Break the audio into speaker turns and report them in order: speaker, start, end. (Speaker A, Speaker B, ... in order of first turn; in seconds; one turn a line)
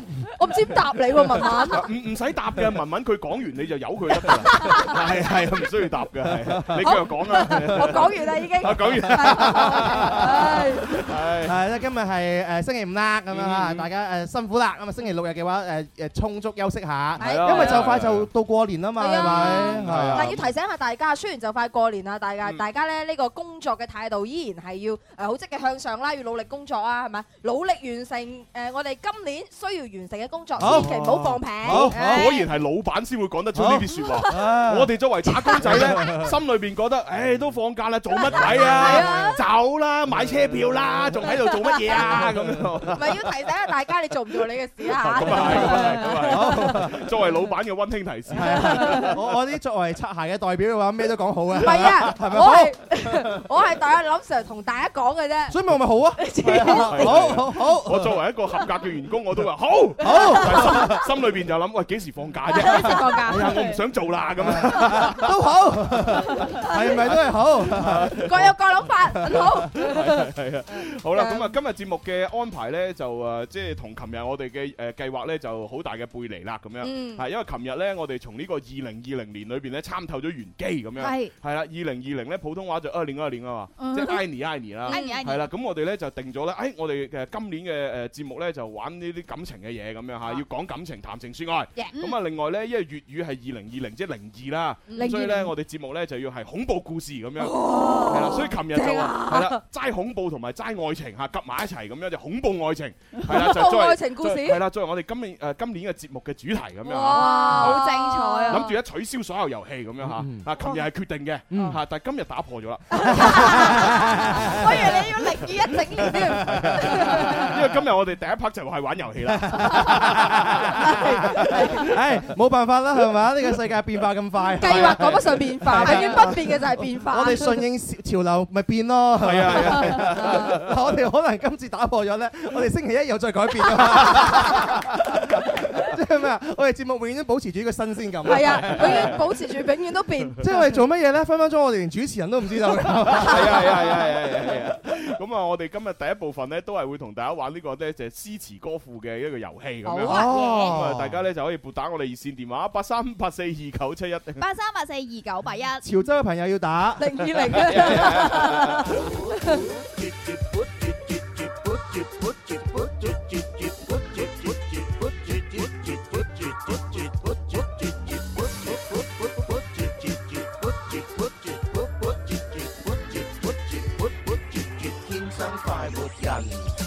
Speaker A: 0.3-1.8
Speaker B: 1.7-11.6
Speaker A: 4.4-5.0
Speaker C: 6.5-6.8
Speaker A: 6.8-10.9
Speaker C: 7.5-7.9
Speaker C: 8.9-10.4
Speaker C: 11.4-20.4
Speaker B: 13.3-13.9
Speaker A: 17.2-17.8
Speaker B: 17.2-18.3
Speaker A: 19.0-32.4
Speaker B: 19.2-20.5
Speaker C: 30.6-32.3
Speaker B: 31.7-43.2
Speaker C: 33.5-36.3
Speaker A: 38.2-39.4
Speaker C: 38.5-39.0
Speaker A: 41.7-42.1
Speaker C: 42.3-42.6
Speaker A: 42.9-46.8
Speaker B: 45.0-49.3
Speaker C: 45.3-47.0
Speaker C: 48.3-53.4
Speaker A: 48.4-49.1
Speaker A: 51.6-55.5
Speaker C: 55.5-58.2
Speaker A: 56.2-57.4
Speaker B: 56.4-65.3
Speaker C: 60.0-61.0
Speaker A: 60.0-60.9
Speaker A: 62.5-63.5
Speaker D: 63.3-63.7
Speaker C: 64.4-68.5
Speaker B: 67.6-68.5
Speaker A: 68.2-70.2
Speaker C: 69.1-69.5
Speaker B: 69.5-107.8
Speaker A: 70.7-71.5
Speaker A: 76.8-77.2
Speaker D: 81.0-81.3
Speaker D: 83.8-84.2
Speaker D: 84.8-85.5
Speaker A: 84.9-85.2
Speaker A: 94.9-95.5
Speaker A: 97.4-99.6
Speaker A: 103.3-104.6
Speaker A: 106.8-108.7
Speaker D: 107.0-108.7
Speaker B: 108.5-113.8
Speaker C: 110.0-110.4
Speaker C: 111.5-111.8
Speaker A: 112.9-117.5
Speaker C: 113.1-114.9
Speaker D: 114.5-116.1
Speaker C: 116.0-117.5
Speaker B: 116.3-122.0
Speaker C: 119.3-139.2
Speaker A: 120.7-121.8
Speaker A: 124.6-127.6
Speaker B: 124.6-126.2
Speaker B: 129.2-130.7
Speaker A: 129.7-130.6
Speaker B: 133.8-134.7
Speaker A: 138.2-140.5
Speaker B: 138.3-139.2
Speaker C: 140.4-144.0
Speaker B: 143.1-154.4
Speaker A: 143.1-143.7
Speaker A: 149.8-150.7
Speaker C: 150.0-151.2
Speaker D: 150.1-150.7
Speaker D: 154.4-155.8
Speaker C: 155.8-158.0
Speaker A: 157.0-159.6
Speaker B: 157.9-158.6
Speaker C: 175.3-176.3